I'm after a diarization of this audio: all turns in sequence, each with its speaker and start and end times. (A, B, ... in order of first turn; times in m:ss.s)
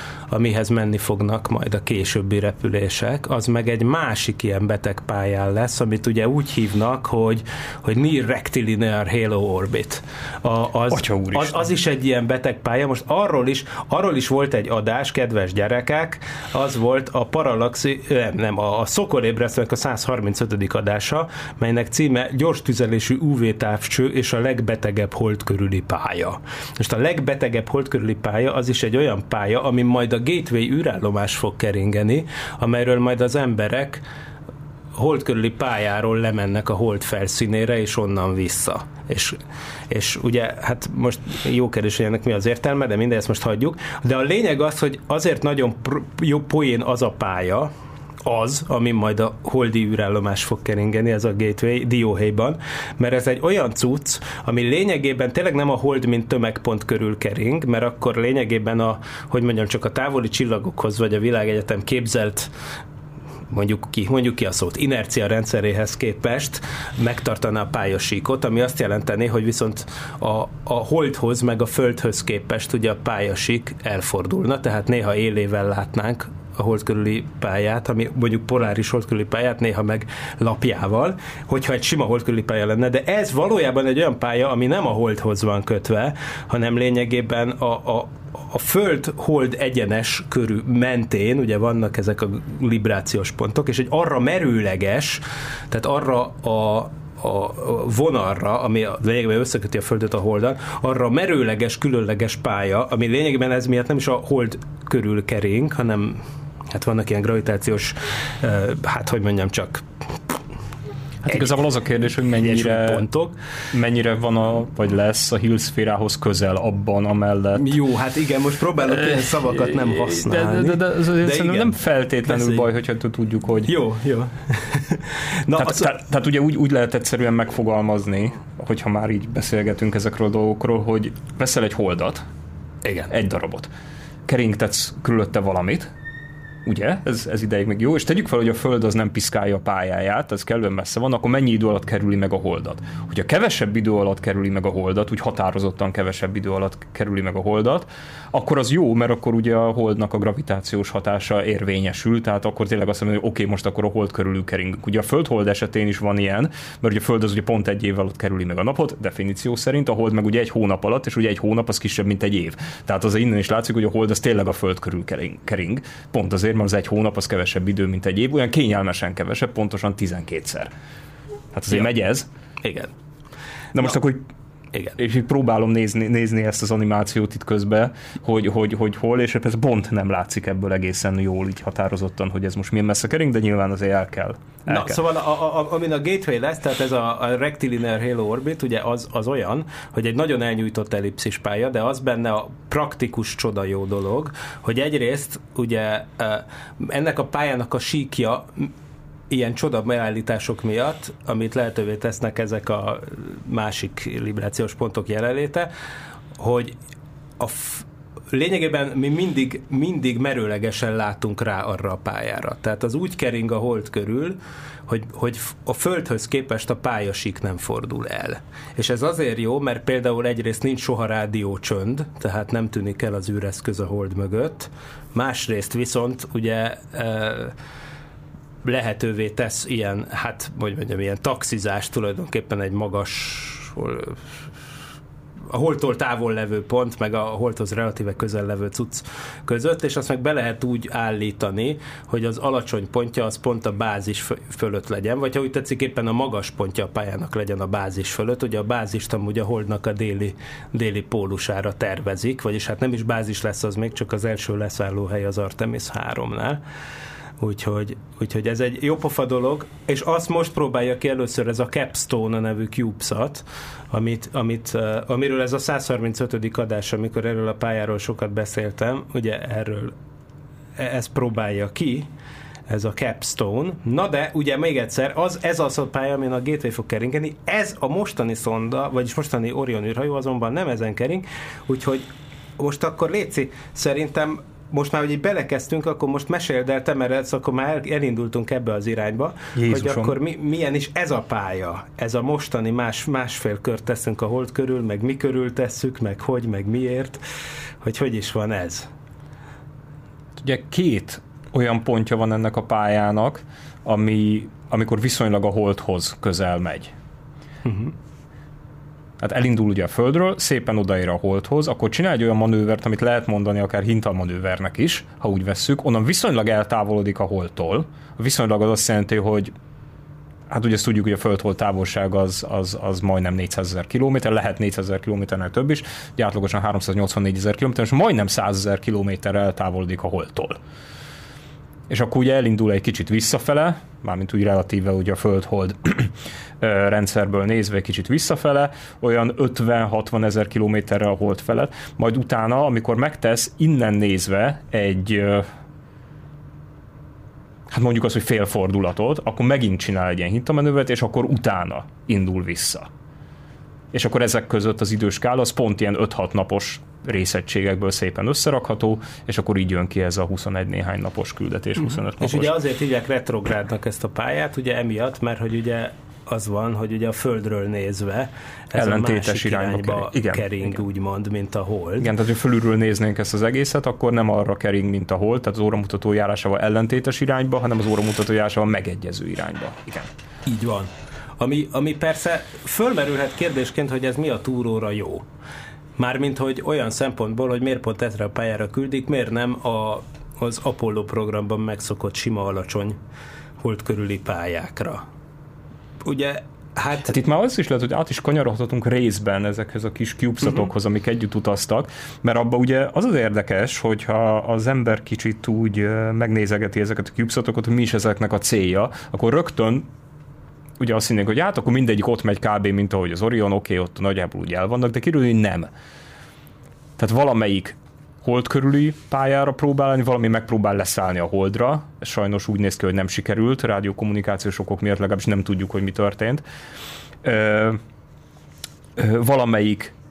0:00.3-0:34.0 A
0:10.9-0:11.6 B
0:34.9-0:39.4 A
0:39.9-0:47.7 A
0:48.2-1:02.5 A
1:03.5-1:49.8 A
1:51.2-1:51.6 A
1:51.3-1:53.0 B
1:52.3-1:53.4 A
1:53.7-1:57.7 B
1:57.5-2:02.6 A
1:58.8-2:03.7 B
2:03.6-2:05.9 A
2:05.6-2:12.3 B
2:12.8-2:13.1 A
2:13.1-2:13.7 B
2:14.2-2:15.9 B
2:16.6-2:50.7 B
2:51.5-2:52.3 B
2:52.6-2:52.9 A
2:53.7-2:54.3 B
2:55.0-3:05.0 B
3:04.7-3:18.7 A
3:19.3-3:25.7 A
3:26.4-3:26.7 A
3:27.4-3:47.5 A
3:48.6-3:54.4 A
3:55.5-4:16.6 A
4:17.4-4:29.9 A
4:30.8-4:32.1 A
4:32.7-4:42.0 A
4:42.6-4:57.2 A
4:49.5-4:50.2 B
4:57.8-4:58.9 A
5:00.4-5:06.9 B
5:07.6-5:07.9 A
5:09.2-5:19.5 B
5:20.5-5:30.6 B
5:31.9-5:45.5 B
5:47.7-5:52.9 B
5:53.9-6:02.6 B
6:02.2-6:12.1 A
6:08.7-6:10.8 B
6:12.0-6:20.1 B
6:20.4-6:25.2 A
6:26.0-6:33.0 A
6:33.6-6:35.0 A
6:36.0-6:37.2 A
6:37.0-6:49.9 B
6:50.8-6:55.7 B
6:57.0-7:06.4 B
7:07.2-7:07.8 B
7:09.0-7:09.9 B